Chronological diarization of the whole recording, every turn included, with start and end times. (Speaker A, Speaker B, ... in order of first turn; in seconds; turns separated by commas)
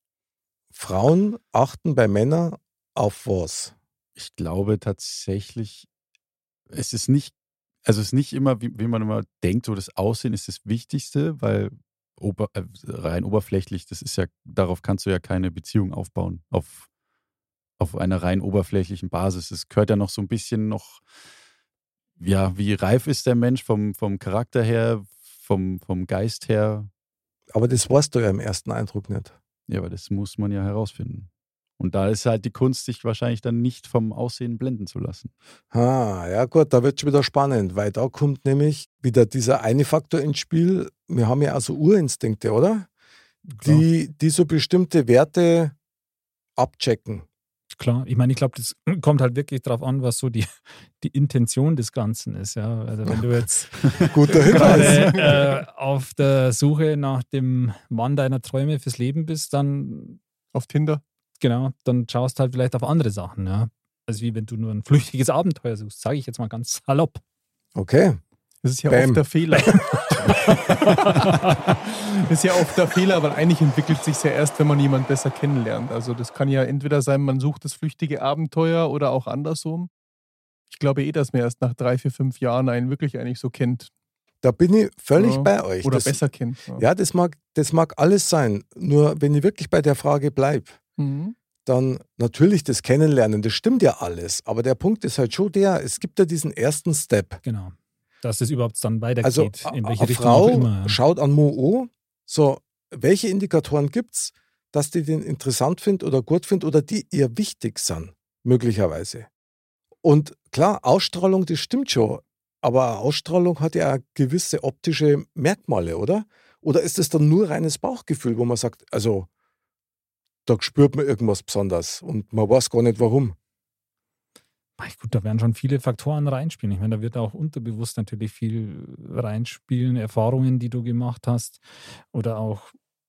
Speaker A: 0.7-3.8, Speaker B: 4.2-5.9, Speaker B: 6.7-7.3, Speaker B: 7.8-16.9, Speaker B: 17.8-21.0, Speaker B: 22.2-26.9, Speaker A: 27.5-29.4, Speaker B: 29.7-35.3, Speaker A: 35.7-42.9, Speaker A: 43.5-45.8, Speaker A: 46.6-47.3, Speaker C: 47.8-50.5, Speaker C: 51.0-60.2, Speaker A: 54.0-55.4, Speaker D: 54.3-55.4, Speaker D: 60.5-61.0, Speaker C: 61.4-67.2, Speaker A: 67.8-68.2, Speaker D: 68.6-79.9, Speaker A: 68.9-69.2, Speaker C: 69.7-71.5, Speaker D: 80.7-83.9, Speaker A: 84.4-86.2, Speaker D: 85.2-86.8, Speaker A: 86.8-90.8, Speaker D: 91.0-91.3, Speaker A: 91.7-97.4, Speaker C: 97.5-101.0, Speaker A: 99.2-109.3, Speaker A: 110.0-119.3, Speaker A: 120.5-123.4, Speaker C: 124.8-131.6, Speaker C: 132.1-132.7